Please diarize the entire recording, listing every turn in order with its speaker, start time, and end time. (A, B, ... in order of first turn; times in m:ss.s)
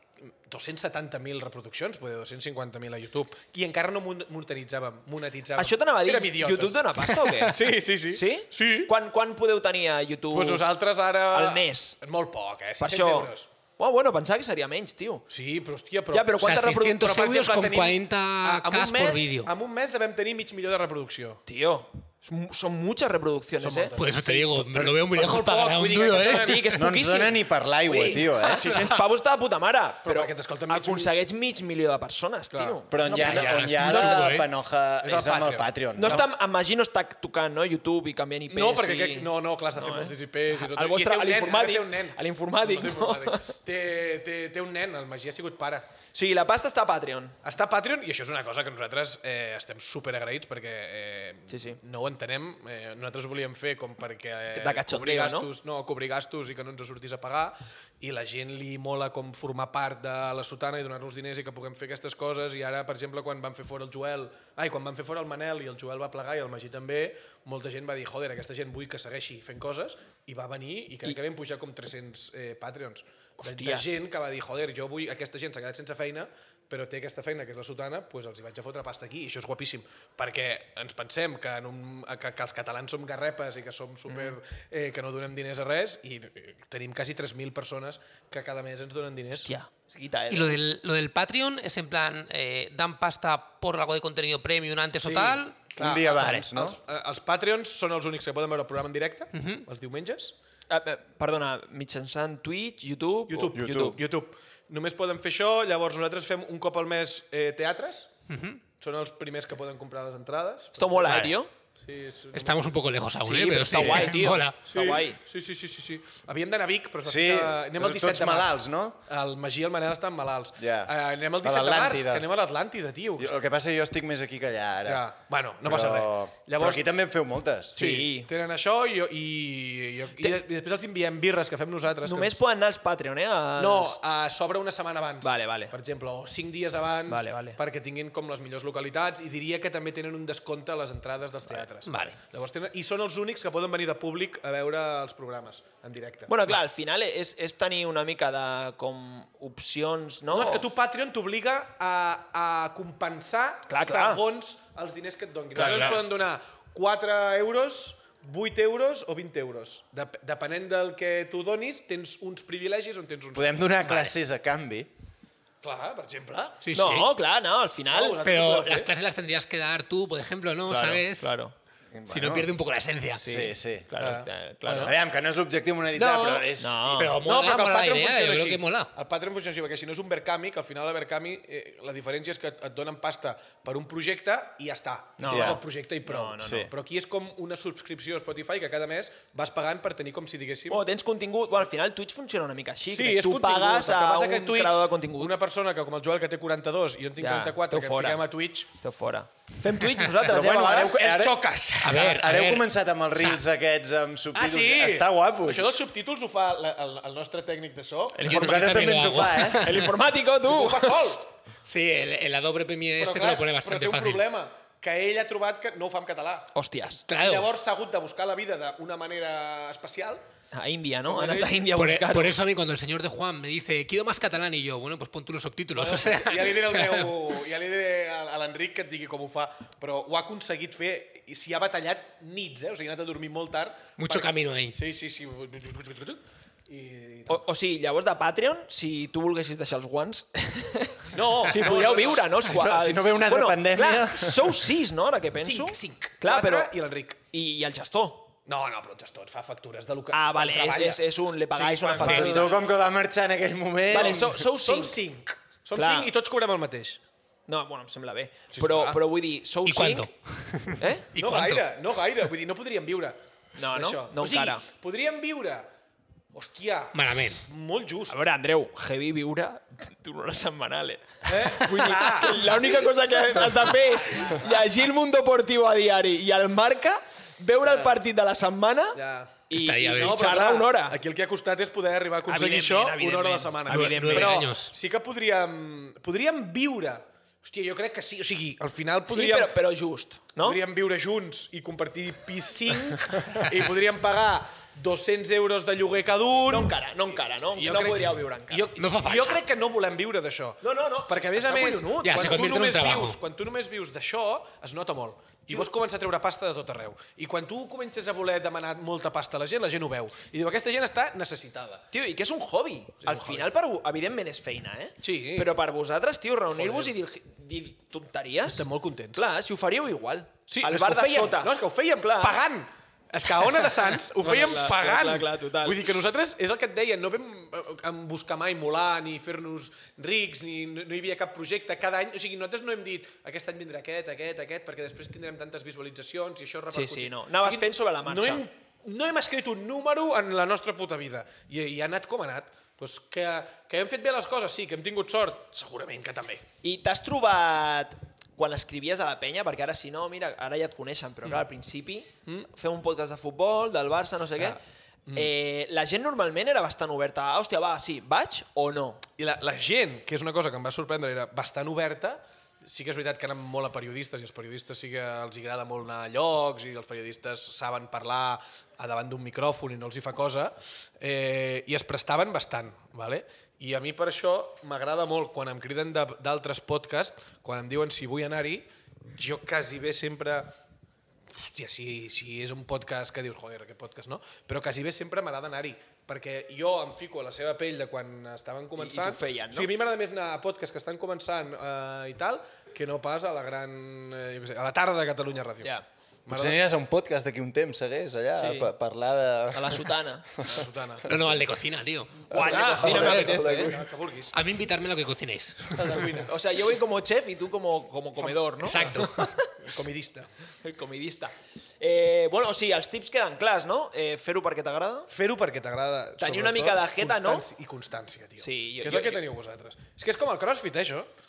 0:00.5-0:06.8 A
0:05.6-0:10.6 B
0:07.5-0:08.9 A
0:10.3-0:13.5 A
0:11.3-0:11.9 B
0:12.8-0:15.2 B
0:15.3-0:21.4 A
0:16.1-0:17.1 B
0:16.4-0:19.5 C
0:21.4-0:23.9 B
0:23.6-0:26.8 A
0:24.0-0:26.6 C
0:26.2-0:34.0 B
0:26.7-0:28.7 D
0:28.0-0:28.9 A
0:30.0-0:31.1 A
0:32.5-0:34.2 A
0:32.9-0:36.2 D
0:33.2-0:34.5 C
0:35.0-0:36.2 A
0:36.0-0:43.5 B
0:38.5-0:45.9 A
0:46.1-0:47.4 B
0:47.4-1:29.5 A
0:51.5-0:51.8 B
0:54.5-0:55.5 B
1:13.4-1:13.9 B
1:24.1-1:24.3 B
1:29.3-1:30.6 B
1:30.3-1:35.6 C
1:35.0-1:40.3 A
1:35.8-1:36.8 D
1:39.3-1:39.6 C
1:40.7-1:44.0 B
1:43.3-1:48.1 A
1:43.5-1:44.0 D
1:48.3-1:48.6 C
1:48.8-1:51.3 A
1:50.7-1:51.5 B
1:51.1-1:51.3 C
1:51.8-1:52.7 A
1:52.3-1:54.6 C
1:53.2-1:55.2 B
1:53.8-1:54.0 D
1:54.7-2:03.3 A
1:57.0-1:59.0 D
2:00.6-2:02.3 D
2:03.2-2:05.0 D
2:04.8-2:06.8 A
2:05.6-2:07.8 D
2:07.8-2:12.4 A
2:07.8-2:08.3 B
2:12.0-2:14.0 B
2:13.6-2:26.3 A
2:15.2-2:15.7 B
2:17.1-2:17.6 B
2:21.8-2:22.1 C
2:26.3-2:30.6 B
2:30.3-2:43.6 A
2:33.7-2:34.2 B
2:35.6-2:36.0 D
2:35.6-2:35.9 B
2:43.3-2:44.9 D
2:43.8-2:44.1 C
2:45.6-2:46.6 A
2:46.6-2:47.1 C
2:46.7-2:48.2 B
2:47.9-2:48.9 A
2:48.2-2:51.3 C
2:50.7-2:51.5 B
2:51.9-2:52.5 D
2:52.1-2:53.3 C
2:53.2-2:54.9 B
2:53.2-2:53.9 D
2:54.0-2:54.9 A
2:54.8-2:57.0 D
2:56.0-2:56.4 C
2:56.6-2:57.2 B
2:57.0-2:58.9 C
2:57.0-3:10.8 A
3:05.2-3:06.7 B
3:05.3-3:05.6 D
3:06.4-3:06.7 D
3:10.7-3:15.4 B
3:12.9-3:18.7 A
3:17.2-3:21.0 B
3:20.2-3:25.7 D
3:20.6-3:22.2 A
3:21.8-3:23.4 C
3:24.3-3:28.3 A
3:28.1-3:31.0 B
3:28.2-3:29.9 C
3:28.2-3:29.8 D
3:30.4-3:31.3 A
3:31.6-3:34.2 C
3:33.0-3:36.5 A
3:36.5-3:37.0 B
3:37.1-3:37.5 C
3:37.1-3:40.2 A
3:40.5-3:42.4 B
3:41.0-3:41.6 A
3:41.7-3:47.1 C
3:45.7-3:57.4 A
3:54.0-3:54.8 C
3:57.3-4:06.7 B
4:01.1-4:02.4 A
4:02.4-4:04.6 D
4:05.4-4:07.2 A
4:07.3-4:08.3 B
4:08.4-4:12.7 A
4:10.1-4:12.5 B
4:12.0-4:14.3 D
4:13.9-4:15.0 B
4:13.9-4:17.0 A
4:15.7-4:16.1 B
4:17.5-4:20.1 B
4:18.5-4:19.0 A
4:19.6-4:21.7 C
4:20.8-4:21.1 B
4:21.1-4:23.2 A
4:23.6-4:24.6 B
4:23.7-4:25.7 A
4:26.3-4:28.2 A
4:26.9-4:27.4 C
4:28.1-4:41.0 B
4:31.2-4:32.8 A
4:33.3-4:34.4 A
4:37.6-4:38.0 A
4:38.9-4:49.5 A
4:39.5-4:40.3 C
4:42.3-4:44.5 B
4:43.7-4:44.7 C
4:49.1-4:50.6 B
4:50.4-4:56.8 A
4:56.4-4:58.7 B
4:57.6-5:11.8 A
4:58.8-4:59.4 C
5:00.6-5:02.4 B
5:02.0-5:03.2 C
5:11.9-5:22.4 B
5:13.0-5:13.5 A
5:15.0-5:15.5 A
5:16.5-5:16.9 A
5:18.4-5:19.2 A
5:20.5-5:46.4 A
5:24.2-5:25.9 B
5:36.7-5:38.4 B
5:46.6-5:54.6 B
5:55.1-5:59.0 B
5:59.2-6:20.6 A
6:21.3-6:35.7 A
6:28.8-6:29.7 B
6:36.2-6:36.6 A
6:36.3-6:41.4 D
6:38.4-6:38.7 B
6:39.5-6:40.3 B
6:40.4-6:41.1 A
6:41.1-6:42.3 C
6:42.3-6:43.8 B
6:42.3-6:43.9 D
6:42.3-6:44.3 A
6:42.8-6:43.3 C
6:44.3-6:45.8 C
6:45.7-6:46.3 A
6:46.2-6:49.2 B
6:48.2-6:50.3 A
6:48.6-6:49.3 C
6:50.6-6:55.1 B
6:55.1-7:01.1 A
6:56.2-6:57.4 B
6:58.4-6:59.2 B